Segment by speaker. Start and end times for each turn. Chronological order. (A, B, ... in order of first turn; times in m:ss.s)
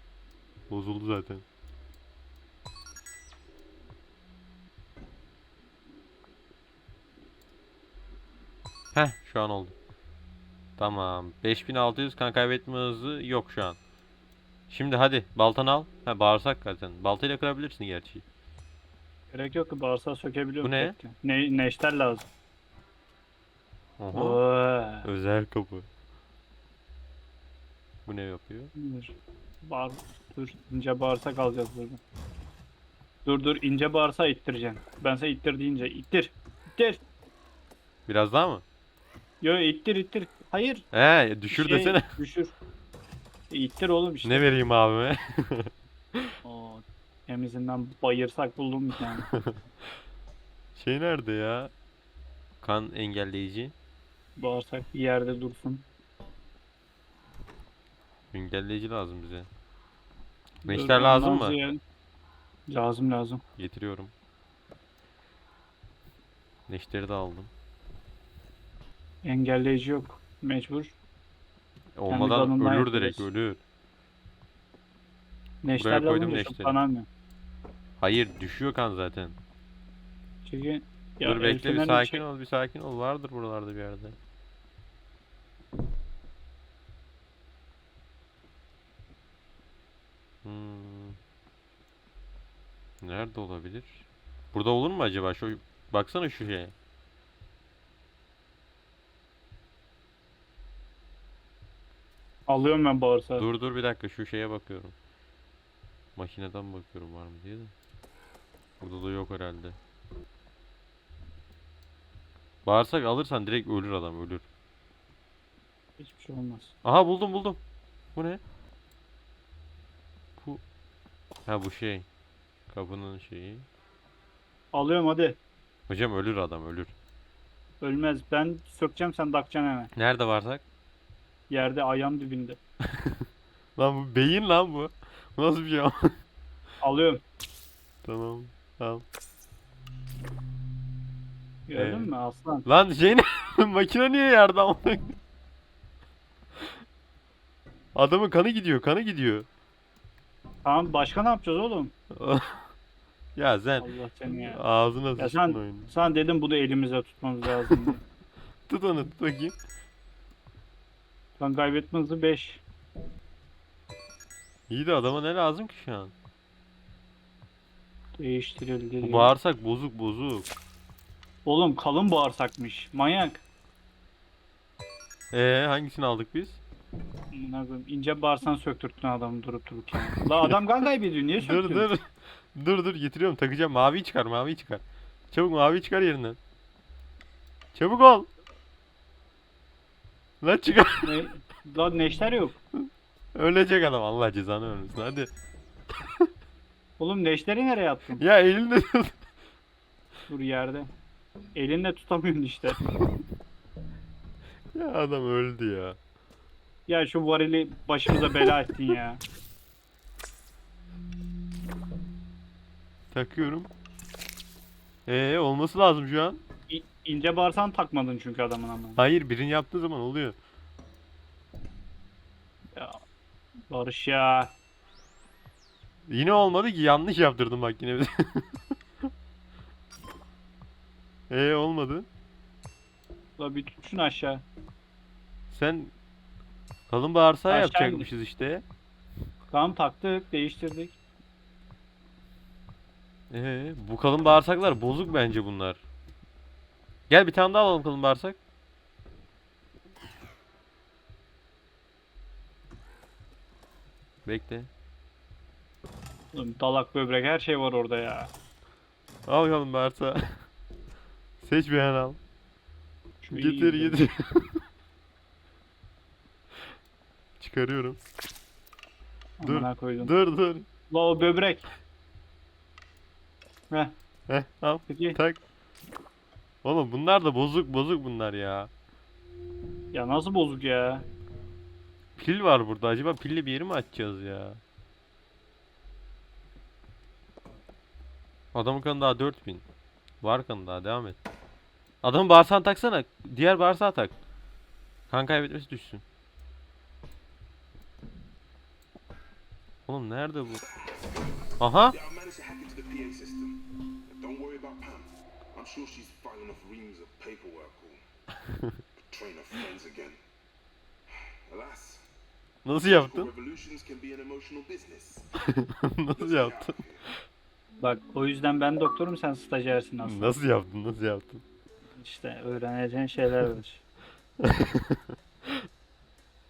0:00.7-0:01.4 A
0:08.9-0:09.7 A
0:10.8-0:13.8 A
0:14.7-0:18.2 A
0:19.3-0:22.2 B
0:20.6-0:21.0 A
0:24.0-0:24.4 A
0:24.1-0:25.1 B
0:25.0-0:25.8 A
0:28.0-0:28.7 A
0:28.7-0:32.0 B
0:33.2-0:37.0 B
0:38.1-0:38.6 A
0:39.4-0:40.8 B
0:40.9-0:42.1 A
0:41.5-0:42.5 B
0:43.5-0:44.5 B
0:44.2-0:46.3 A
0:46.4-0:49.3 B
0:50.7-0:51.7 A
0:52.6-0:53.7 A
0:54.4-0:55.8 B
0:58.3-0:59.5 A
1:00.6-1:01.8 B
1:00.6-1:01.6 A
1:02.7-1:03.4 B
1:03.6-1:04.1 A
1:06.7-1:07.5 A
1:09.2-1:11.0 B
1:12.0-1:13.6 A
1:12.1-1:13.3 B
1:15.6-1:17.1 B
1:15.8-1:16.8 A
1:18.0-1:19.4 A
1:20.4-1:22.2 B
1:21.2-1:24.2 A
1:30.4-1:31.2 A
1:33.0-1:36.7 A
1:42.5-1:43.4 B
1:43.4-1:44.9 A
1:46.2-1:47.7 A
1:48.8-1:49.8 A
1:52.6-1:54.4 A
1:56.0-1:56.7 B
1:56.8-1:57.6 A
1:58.1-1:58.4 A
2:01.4-2:02.1 A
2:02.7-2:03.6 A
2:04.7-2:05.4 B
2:05.9-2:06.9 A
2:07.8-2:09.9 B
2:10.0-2:10.6 A
2:11.5-2:12.6 B
2:13.8-2:16.1 A
2:16.8-2:17.2 B
2:18.0-2:19.0 A
2:21.7-2:22.6 B
2:21.7-2:22.1 A
2:22.6-2:25.2 A
2:27.9-2:29.4 A
2:30.6-2:31.9 B
2:32.1-2:32.7 A
2:33.4-2:35.9 A
2:33.8-2:34.6 B
2:35.2-2:38.0 B
2:38.7-2:39.5 A
2:41.4-2:42.6 B
2:44.7-2:46.1 A
2:48.2-2:49.3 B
2:49.0-2:50.5 A
2:51.4-2:53.4 B
2:55.3-2:56.6 A
2:57.3-3:01.9 B
3:01.4-3:06.4 A
3:07.7-3:08.3 A
3:10.4-3:11.2 A
3:11.0-3:12.6 B
3:13.3-3:15.3 A
3:17.0-3:18.2 B
3:18.2-3:19.2 A
3:20.3-3:20.9 B
3:21.5-3:22.8 B
3:24.7-3:26.0 A
3:26.9-3:29.2 B
3:33.1-3:33.7 A
3:35.0-3:36.4 A
3:36.7-3:39.0 B
3:39.0-3:40.4 A
3:42.7-3:43.0 B
3:43.7-3:44.5 B
3:46.1-3:48.5 A
3:51.3-3:52.1 A
3:53.4-3:54.4 B
3:55.5-3:55.9 A
3:56.9-3:58.6 A
3:57.5-3:58.1 B
3:59.5-4:01.0 B
4:03.3-4:05.8 A
4:07.1-4:08.4 A
4:14.2-4:14.7 A
4:16.3-4:18.3 B
4:19.3-4:20.4 A
4:21.4-4:22.2 A
4:23.2-4:24.0 B
4:23.3-4:24.6 A
4:27.4-4:28.0 A
4:29.4-4:30.1 B
4:29.4-4:30.6 A
4:30.9-4:31.6 B
4:33.7-4:34.0 B
4:34.3-4:35.4 A
4:34.9-4:35.2 B
4:36.6-4:38.7 A
4:39.9-4:41.1 B
4:42.2-4:44.6 A
4:48.5-4:49.6 A
4:50.2-4:51.2 A
4:52.0-4:54.1 A
4:55.1-4:56.0 A
4:59.9-5:00.6 A
5:01.6-5:02.0 A
5:01.9-5:08.0 C
5:09.1-5:10.2 C
5:11.4-5:12.0 C
5:12.6-5:13.3 A
5:13.0-5:15.3 C
5:15.4-5:16.8 A
5:16.2-5:17.0 C
5:17.8-5:20.4 B
5:20.0-5:21.4 A
5:22.0-5:23.8 B
5:24.4-5:25.0 A